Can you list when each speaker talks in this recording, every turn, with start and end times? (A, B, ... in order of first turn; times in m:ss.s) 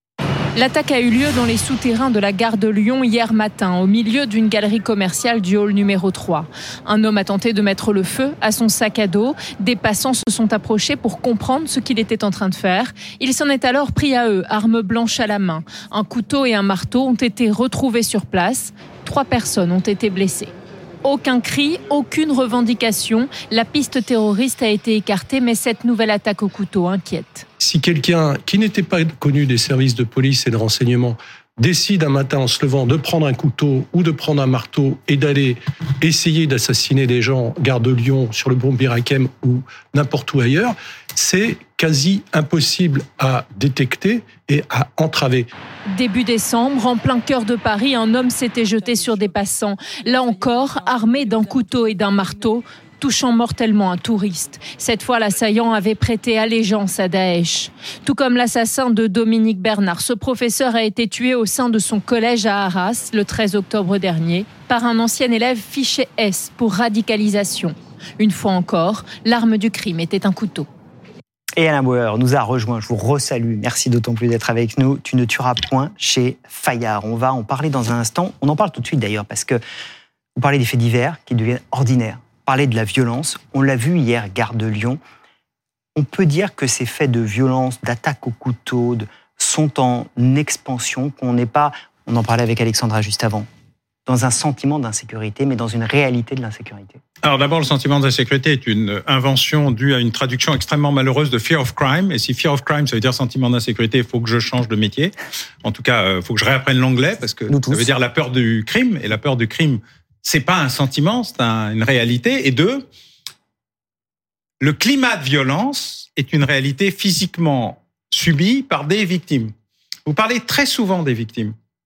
0:00.6-0:20.5 A
0:21.0-0:27.5 A
0:27.6-0:45.5 B
0:45.9-1:10.7 A
1:11.6-1:19.6 C
1:20.4-1:25.0 C
1:26.0-1:33.5 C
1:34.1-1:37.0 C
1:37.2-1:52.9 D
1:47.5-1:47.9 C
1:54.6-1:59.5 D
2:00.1-2:01.5 D